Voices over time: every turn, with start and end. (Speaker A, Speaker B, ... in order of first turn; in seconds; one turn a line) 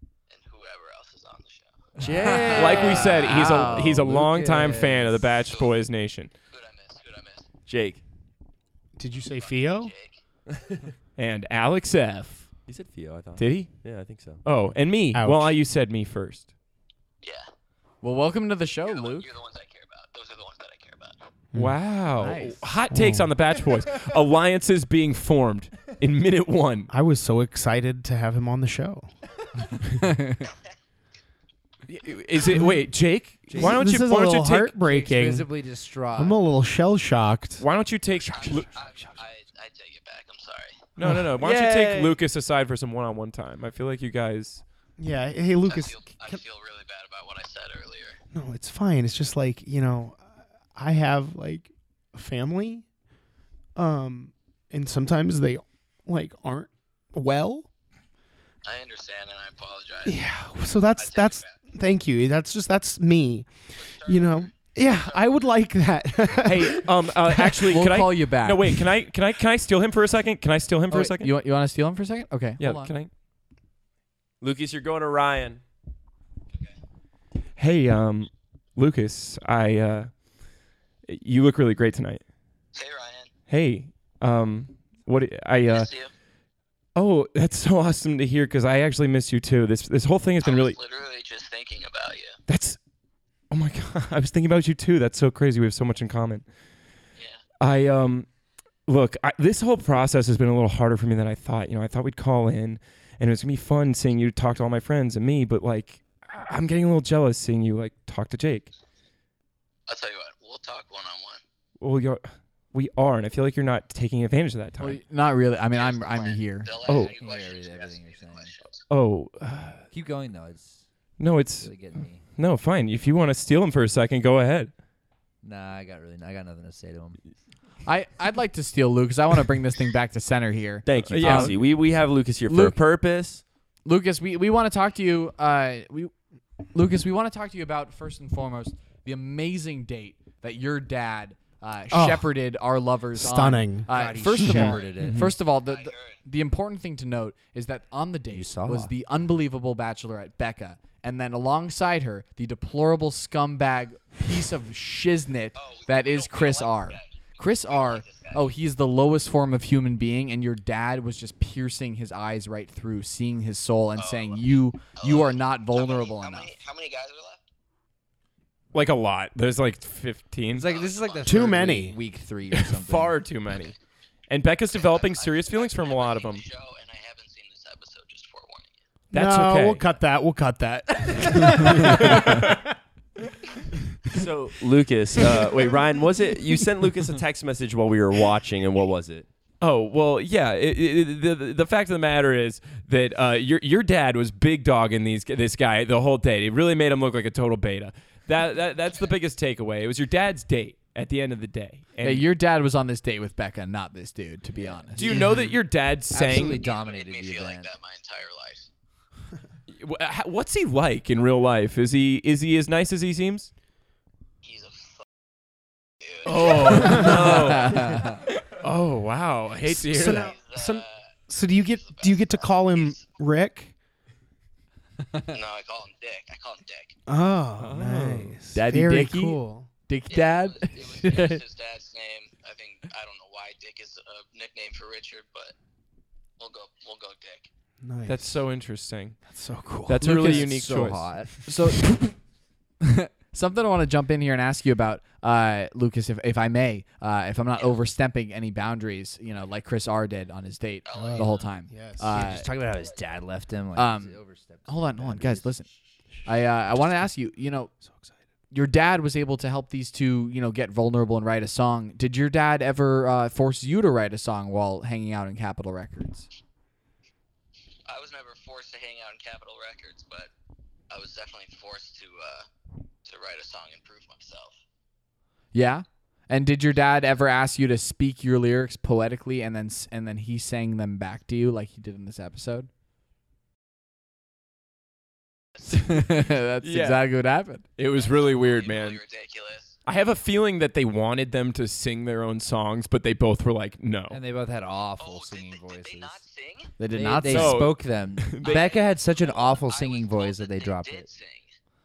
Speaker A: 0.3-1.9
Speaker B: 2.0-5.2
Speaker C: 2.0-4.1
Speaker D: 2.5-6.3
Speaker A: 5.5-5.7
Speaker A: 6.5-7.5
Speaker E: 7.7-8.0
Speaker F: 9.0-9.9
Speaker A: 9.4-10.2
Speaker D: 11.2-12.5
Speaker E: 12.7-14.4
Speaker D: 13.4-16.5
Speaker F: 15.1-15.6
Speaker C: 18.0-19.3
Speaker A: 18.9-21.2
Speaker D: 21.5-26.9
Speaker C: 22.2-22.8
Speaker F: 22.9-23.3
Speaker F: 26.9-29.1
Speaker C: 30.0-30.5
Speaker D: 31.9-34.7
Speaker F: 32.5-32.8
Speaker B: 33.5-33.8
Speaker F: 33.5-35.5
Speaker B: 34.8-36.4
Speaker F: 36.1-37.6
Speaker D: 37.6-38.7
Speaker A: 38.1-40.8
Speaker F: 38.4-39.1
Speaker D: 41.0-44.6
Speaker F: 41.0-41.3
Speaker E: 41.4-42.2
Speaker F: 45.0-46.4
Speaker A: 45.7-48.2
Speaker F: 48.3-52.9
Speaker F: 53.8-57.7
Speaker A: 58.6-60.3
Speaker F: 60.0-67.8
Speaker A: 60.9-61.6
Speaker A: 63.7-65.6
Speaker D: 66.4-71.3
Speaker C: 67.6-68.8
Speaker C: 70.9-72.9
Speaker D: 72.6-73.1
Speaker E: 74.4-75.6
Speaker D: 77.6-80.1
Speaker D: 81.1-82.2
Speaker A: 82.7-83.3
Speaker D: 83.5-85.9
Speaker A: 85.7-86.1
Speaker D: 86.9-90.8
Speaker A: 90.4-92.3
Speaker D: 92.5-92.8
Speaker D: 93.5-96.4
Speaker D: 97.6-98.3
Speaker D: 98.8-108.7
Speaker A: 109.9-111.4
Speaker D: 111.8-115.0
Speaker C: 114.8-116.7
Speaker A: 115.7-118.8
Speaker D: 116.8-117.1
Speaker B: 116.9-118.5
Speaker D: 118.9-119.8
Speaker B: 119.9-120.8
Speaker D: 121.2-124.7
Speaker B: 121.6-122.2
Speaker B: 125.4-127.2
Speaker C: 127.8-131.6
Speaker E: 130.8-133.4
Speaker D: 131.1-131.6
Speaker C: 132.4-132.8
Speaker C: 133.8-136.1
Speaker C: 136.7-166.6
Speaker F: 141.9-142.3
Speaker F: 143.2-144.8
Speaker B: 143.9-145.2
Speaker D: 145.0-145.4
Speaker A: 145.6-146.2
Speaker B: 148.3-148.9
Speaker A: 155.6-158.4
Speaker A: 164.0-164.4
Speaker A: 164.9-167.4
Speaker D: 168.7-170.7
Speaker B: 170.6-173.2
Speaker A: 170.7-171.5
Speaker F: 171.2-171.9
Speaker D: 172.5-173.7
Speaker D: 174.3-176.4
Speaker A: 174.7-178.8
Speaker F: 179.1-182.7
Speaker D: 179.1-179.8
Speaker A: 181.0-181.3
Speaker D: 181.7-182.6
Speaker E: 184.1-189.3
Speaker F: 185.2-185.7
Speaker D: 189.6-202.3
Speaker C: 202.0-205.2
Speaker B: 204.7-205.3
Speaker D: 204.9-206.6
Speaker B: 206.1-207.7
Speaker A: 206.4-208.7
Speaker D: 209.7-213.5
Speaker A: 214.4-215.0
Speaker A: 216.0-217.4
Speaker D: 216.2-220.3
Speaker C: 216.6-218.1
Speaker F: 216.8-217.9
Speaker F: 219.7-223.7
Speaker A: 219.9-223.1
Speaker C: 225.1-225.4
Speaker A: 225.3-227.0
Speaker F: 227.1-229.7
Speaker D: 227.6-228.4
Speaker C: 228.5-231.4
Speaker A: 230.1-235.5
Speaker A: 236.4-237.5
Speaker F: 237.8-238.3
Speaker D: 238.0-239.2
Speaker F: 239.2-240.0
Speaker D: 239.8-241.1
Speaker B: 240.0-241.3
Speaker C: 240.0-240.5
Speaker C: 241.4-242.2
Speaker C: 242.8-252.5
Speaker A: 250.8-251.6
Speaker F: 250.9-252.2
Speaker B: 252.0-255.5
Speaker C: 253.7-255.7
Speaker C: 256.2-257.7
Speaker C: 258.5-266.3
Speaker A: 267.9-270.3
Speaker A: 270.9-272.5
Speaker A: 273.0-274.6
Speaker C: 275.5-282.7
Speaker A: 285.6-285.9
Speaker C: 285.7-287.6
Speaker D: 286.6-287.0
Speaker D: 287.8-289.0
Speaker A: 287.9-289.7
Speaker D: 289.9-294.2
Speaker B: 294.1-296.2
Speaker A: 295.0-296.7
Speaker C: 296.8-297.6
Speaker B: 296.9-301.1
Speaker D: 297.2-298.6
Speaker A: 298.4-301.5